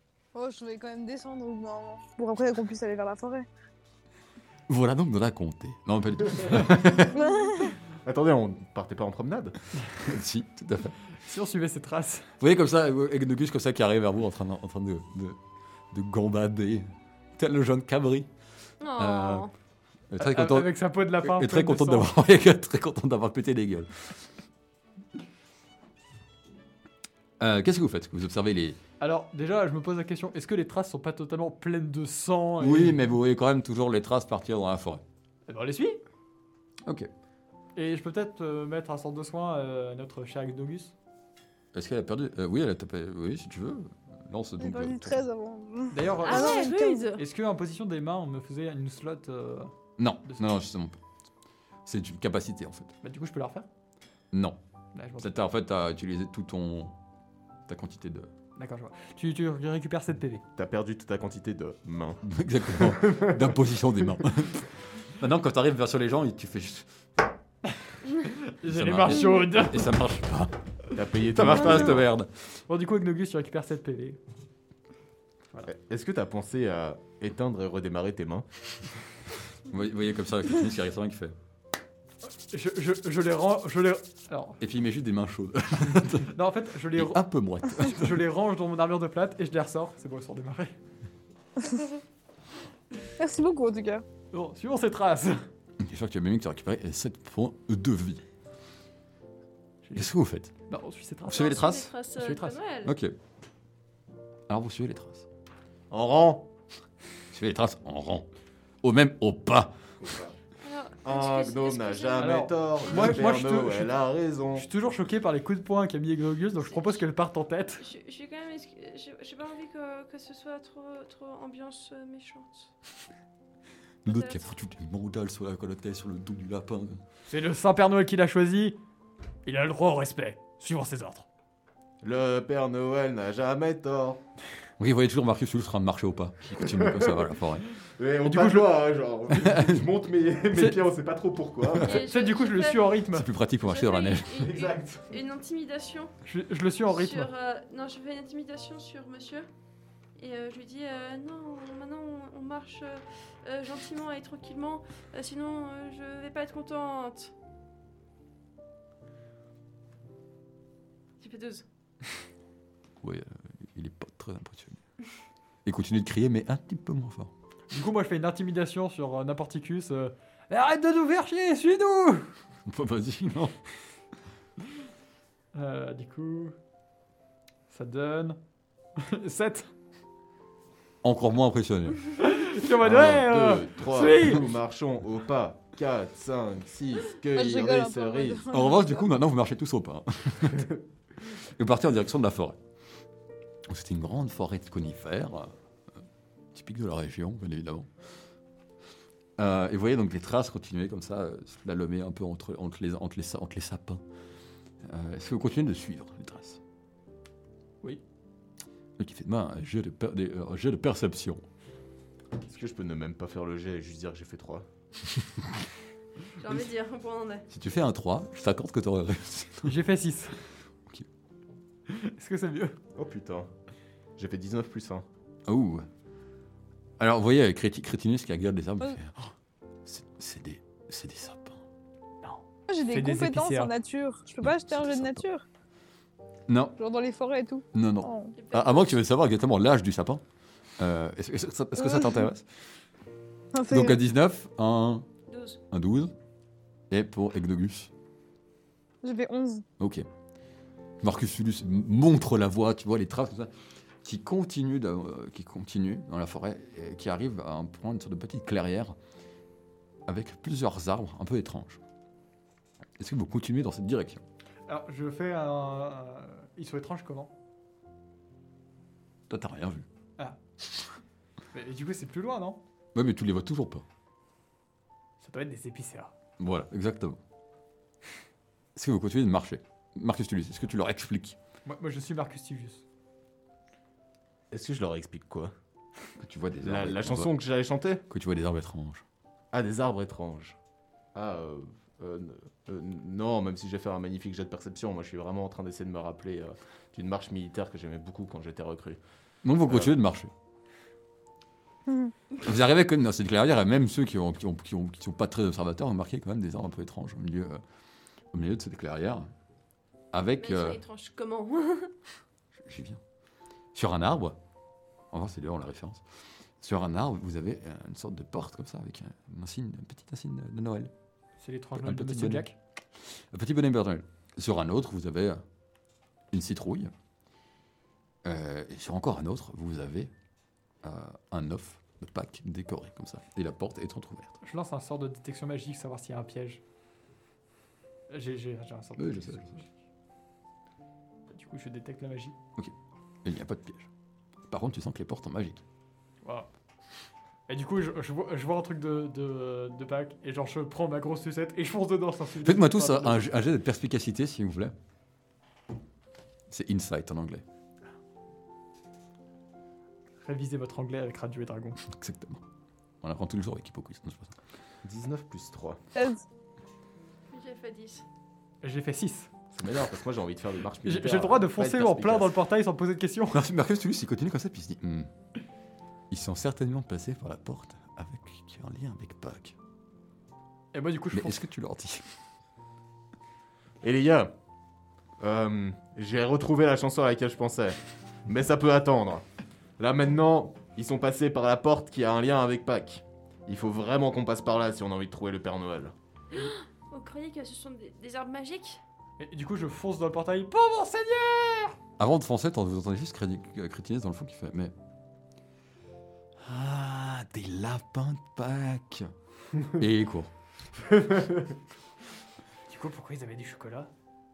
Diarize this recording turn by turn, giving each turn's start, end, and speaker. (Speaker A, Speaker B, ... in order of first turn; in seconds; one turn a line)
Speaker A: 0.3-3.5
Speaker B: 4.7-7.2
Speaker A: 7.1-7.7
Speaker C: 8.0-9.6
Speaker B: 10.0-10.9
Speaker D: 11.1-12.3
Speaker B: 12.4-15.4
Speaker B: 15.9-18.3
Speaker E: 18.8-19.5
Speaker B: 18.9-19.5
Speaker B: 20.1-24.3
Speaker D: 20.2-22.1
Speaker B: 27.4-28.8
Speaker D: 29.0-33.0
Speaker B: 32.6-35.0
Speaker D: 35.5-36.0
Speaker D: 37.8-40.9
Speaker B: 41.7-45.2
Speaker A: 44.6-47.1
Speaker D: 45.9-49.7
Speaker E: 46.2-47.2
Speaker B: 50.0-51.0
Speaker B: 51.9-52.9
Speaker D: 53.0-53.7
Speaker B: 54.3-54.6
Speaker D: 54.9-55.4
Speaker B: 55.2-56.9
Speaker B: 57.7-58.3
Speaker D: 58.5-60.4
Speaker C: 60.5-62.2
Speaker B: 62.2-66.9
Speaker C: 62.8-63.5
Speaker D: 68.2-70.0
Speaker B: 68.7-70.6
Speaker C: 70.9-72.1
Speaker B: 71.1-72.5
Speaker D: 72.7-74.2
Speaker C: 75.7-78.5
Speaker B: 79.7-81.3
Speaker D: 82.3-84.6
Speaker B: 84.6-86.3
Speaker D: 86.3-90.8
Speaker B: 86.9-88.3
Speaker A: 91.6-91.9
Speaker A: 93.2-94.0
Speaker D: 94.3-95.5
Speaker B: 95.8-98.2
Speaker D: 99.8-100.1
Speaker B: 99.9-100.5
Speaker D: 100.7-102.6
Speaker E: 101.3-103.0
Speaker B: 101.3-101.9
Speaker B: 102.8-103.1
Speaker B: 104.5-105.2
Speaker C: 105.9-106.5
Speaker B: 107.3-108.3
Speaker B: 108.8-109.7
Speaker C: 110.0-110.3
Speaker E: 110.6-112.3
Speaker C: 111.0-114.7
Speaker D: 112.2-113.9
Speaker D: 114.5-117.8
Speaker E: 117.8-122.7
Speaker B: 124.0-127.0
Speaker E: 124.0-124.5
Speaker D: 127.3-128.8
Speaker D: 129.4-131.2
Speaker C: 132.0-134.2
Speaker B: 134.8-137.6
Speaker C: 136.7-137.2
Speaker C: 138.0-141.9
Speaker D: 138.2-138.7
Speaker B: 139.4-139.8
Speaker D: 140.5-140.8
Speaker E: 141.8-142.9
Speaker D: 141.8-143.3
Speaker B: 143.1-144.4
Speaker E: 143.6-146.1
Speaker C: 144.4-145.1
Speaker D: 146.2-147.3
Speaker E: 146.9-149.5
Speaker E: 150.2-157.3
Speaker E: 161.2-161.6
Speaker B: 163.0-164.8
Speaker B: 165.6-167.3
Speaker D: 167.7-172.3
Speaker B: 172.7-173.6
Speaker D: 175.5-176.6
Speaker D: 177.7-178.4
Speaker D: 179.0-179.7
Speaker B: 181.0-182.0
Speaker D: 182.2-184.5
Speaker C: 182.8-188.5
Speaker A: 187.3-189.1
Speaker B: 188.5-190.7
Speaker B: 191.6-192.6
Speaker B: 193.7-195.5
Speaker B: 196.5-197.9
Speaker B: 199.4-204.0
Speaker B: 204.8-206.6
Speaker B: 209.0-211.4
Speaker C: 212.4-214.7
Speaker E: 216.4-217.5
Speaker B: 217.5-219.8
Speaker D: 219.6-220.4
Speaker D: 221.9-222.8
Speaker C: 222.9-223.5
Speaker C: 224.2-225.0
Speaker B: 225.5-225.9
Speaker B: 227.0-229.3
Speaker B: 229.8-231.6
Speaker D: 232.2-233.7
Speaker A: 232.7-235.4
Speaker B: 234.6-235.2
Speaker B: 236.5-236.8
Speaker A: 236.8-238.3
Speaker B: 237.7-240.2
Speaker E: 238.3-238.9
Speaker B: 240.8-242.4
Speaker A: 241.8-242.3
Speaker A: 243.5-244.0
Speaker B: 243.7-245.1
Speaker E: 245.3-245.6
Speaker B: 245.7-246.1
Speaker B: 246.9-247.9
Speaker A: 249.0-249.6
Speaker B: 249.8-250.1
Speaker B: 251.0-253.5
Speaker B: 254.0-258.9
Speaker B: 260.1-261.8
Speaker B: 263.0-264.2
Speaker D: 264.7-267.3
Speaker B: 269.3-269.8
Speaker D: 271.5-272.6
Speaker B: 272.9-273.8
Speaker D: 275.2-276.1
Speaker B: 276.4-277.2
Speaker B: 278.8-281.4
Speaker D: 281.6-282.8
Speaker C: 284.5-285.5
Speaker B: 286.2-287.3
Speaker C: 286.6-288.0
Speaker B: 288.1-289.0
Speaker C: 289.5-290.6
Speaker C: 291.1-299.0
Speaker B: 299.4-300.3
Speaker C: 299.6-299.9
Speaker A: 301.9-302.1
Speaker B: 302.4-307.6
Speaker B: 308.3-309.3
Speaker B: 310.1-310.8
Speaker E: 310.3-311.9
Speaker B: 312.6-313.0
Speaker B: 313.7-314.4
Speaker B: 315.1-316.0
Speaker B: 316.6-320.9
Speaker D: 321.4-322.6
Speaker B: 321.8-322.5
Speaker B: 323.3-325.4
Speaker B: 326.3-326.9
Speaker B: 328.2-330.1
Speaker B: 330.8-334.4
Speaker D: 334.4-336.6
Speaker D: 338.1-339.7
Speaker B: 339.0-339.6
Speaker D: 341.3-342.4
Speaker B: 343.2-343.9
Speaker B: 344.5-345.6
Speaker D: 346.2-346.5
Speaker D: 347.5-353.3
Speaker B: 352.4-354.7
Speaker B: 356.5-357.4
Speaker D: 360.2-361.8
Speaker B: 361.9-362.4
Speaker B: 363.0-364.3
Speaker C: 364.8-365.8
Speaker A: 365.9-366.2
Speaker E: 367.3-368.1
Speaker D: 368.6-369.3
Speaker C: 369.5-372.4
Speaker D: 370.8-373.4
Speaker B: 373.3-375.1
Speaker B: 376.1-379.5
Speaker D: 380.7-381.4
Speaker B: 381.1-382.1
Speaker C: 383.8-384.3
Speaker C: 385.2-389.2
Speaker C: 389.8-395.9
Speaker E: 396.3-398.8
Speaker D: 399.2-401.8
Speaker B: 402.0-404.7
Speaker B: 406.4-409.1
Speaker B: 409.8-410.3
Speaker D: 412.7-413.9